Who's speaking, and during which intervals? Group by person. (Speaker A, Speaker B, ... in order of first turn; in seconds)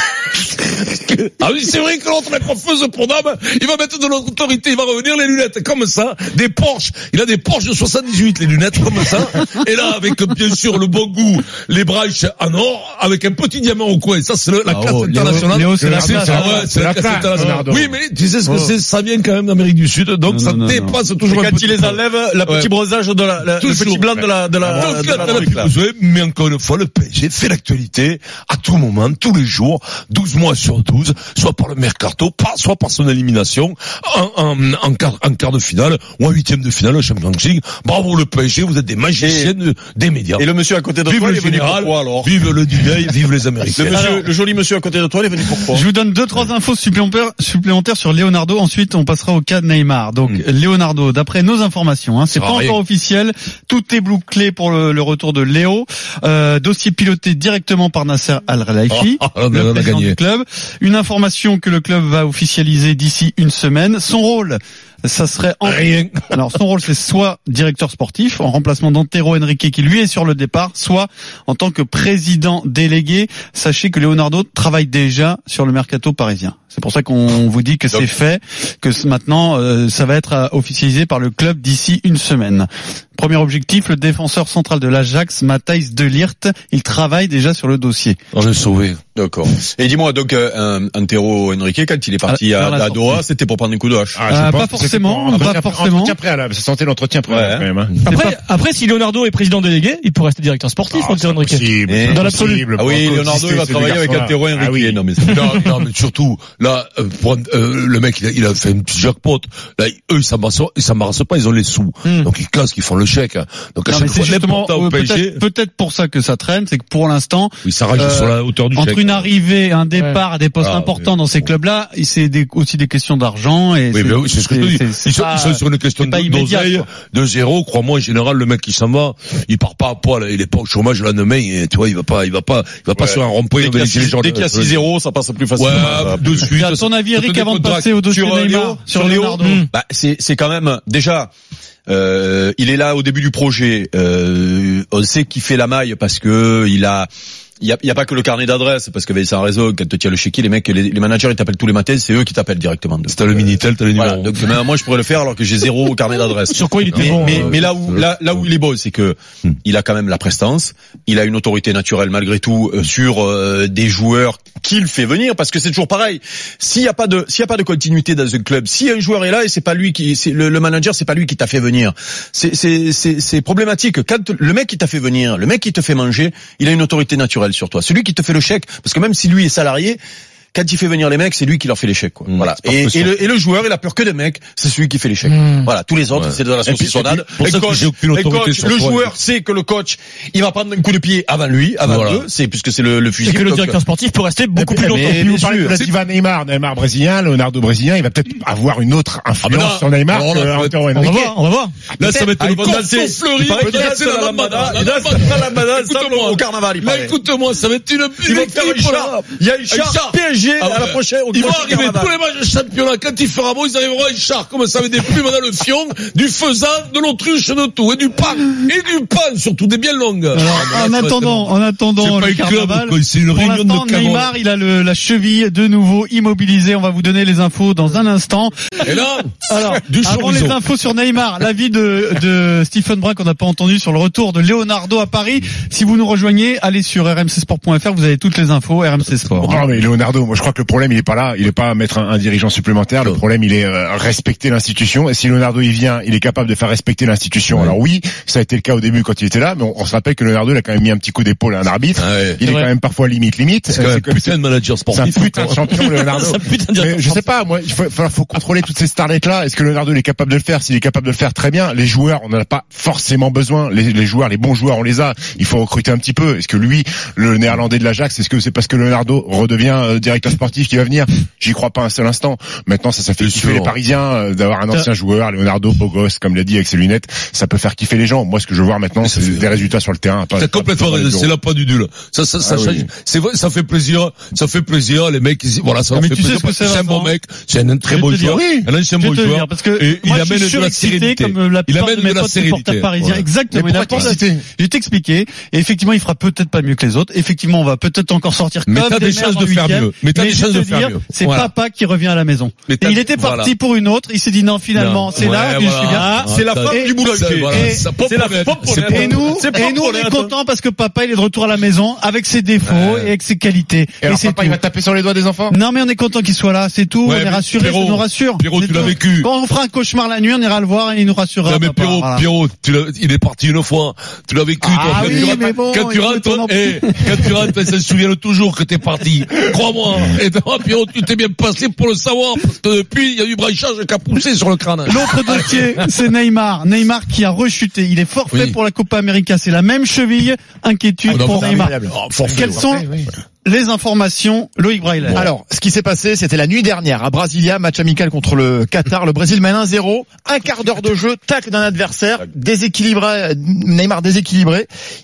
Speaker A: 0.3-22.7, 23.6-40.5, 41.0-44.0, 52.3-52.8, 58.9-60.2, 65.7-66.3, 88.3-89.0, 105.3-115.4, 117.6-119.3, 120.6-121.5, 123.9-134.8, 135.6-138.0, 153.1-154.5, 156.9-158.2, 182.3-183.2, 186.1-189.1, 191.8-192.3, 195.7-195.9, 199.4-201.0, 202.0-224.3, 228.8-230.6, 239.2-239.8, 247.5-247.8, 252.0-252.4, 253.7-255.7, 273.2-273.7, 279.0-279.5, 280.3-293.2, 298.7-301.5, 302.7-303.5, 304.7-309.2, 312.6-313.1, 317.0-319.3, 321.4-335.9, 338.3-338.6, 341.1-342.7, 345.0-345.3
Speaker B: 14.7-15.4, 21.2-25.7, 39.2-39.5, 40.4-42.3, 43.6-45.8, 89.1-94.2, 97.3-97.7, 101.9-102.2, 102.7-105.6, 132.9-136.5, 138.1-141.3, 141.9-147.1, 147.6-180.0, 180.5-193.8, 194.8-195.7, 202.0-207.2, 208.2-212.1, 305.9-310.3
Speaker C: 15.2-16.5, 20.3-21.0, 43.9-44.2, 45.7-88.2, 92.2-93.2, 94.3-96.2, 98.1-98.4, 113.9-126.9, 136.4-139.6, 220.3-228.8, 229.4-239.6, 285.9-287.1, 287.9-288.4, 289.0-307.8, 308.9-314.6, 315.5-322.2, 324.8-327.2, 334.9-342.9, 343.4-345.2
Speaker D: 15.8-17.9, 94.1-98.0, 100.9-105.0, 194.6-201.3, 201.9-202.3, 239.4-254.3, 254.9-281.3, 282.4-282.9, 288.3-288.7, 293.5-294.4, 314.0-315.6, 324.6-325.6, 342.3-343.1
Speaker E: 98.0-102.7, 120.0-120.2, 156.4-157.7, 185.3-185.7, 193.2-195.6, 200.9-201.8, 252.4-252.7, 255.7-257.2
Speaker F: 341.1-342.4, 345.1-354.7